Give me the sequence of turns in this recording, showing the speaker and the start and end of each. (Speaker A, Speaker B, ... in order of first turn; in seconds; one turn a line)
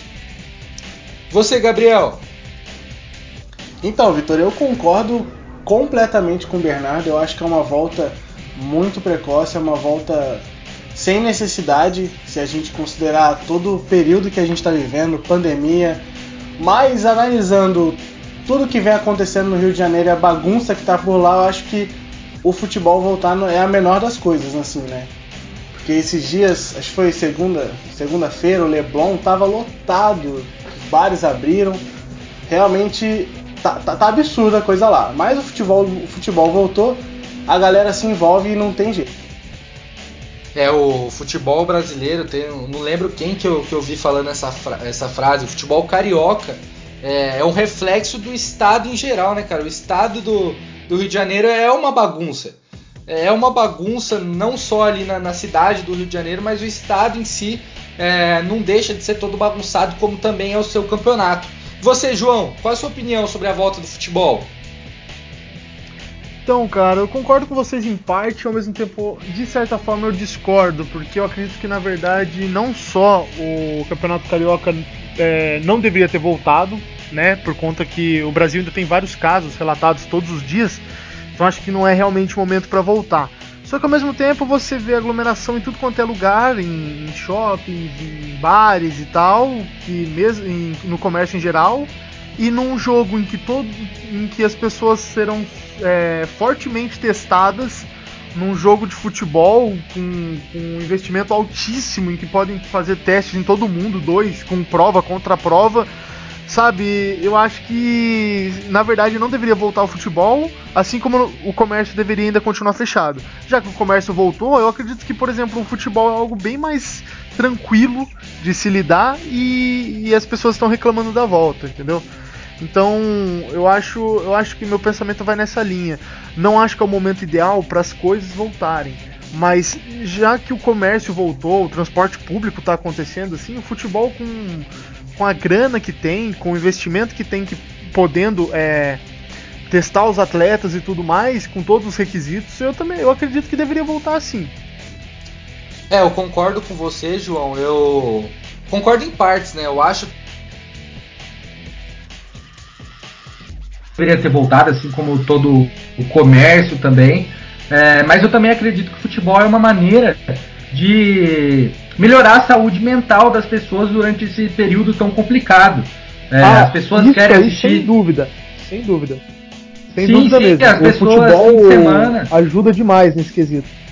Speaker A: 1.3-2.2
Speaker B: 3.8-16.0
Speaker B: 16.6-25.1
Speaker B: 25.8-31.8
Speaker B: 32.5-39.2
Speaker A: 40.5-64.5
Speaker C: 66.4-80.8
Speaker C: 81.3-105.9
Speaker C: 106.4-122.0
Speaker C: 122.6-139.0
Speaker C: 139.7-144.5
Speaker A: 145.9-150.1
Speaker A: 154.0-167.9
Speaker C: 166.4-169.2
Speaker C: 169.9-173.7
Speaker A: 170.0-172.3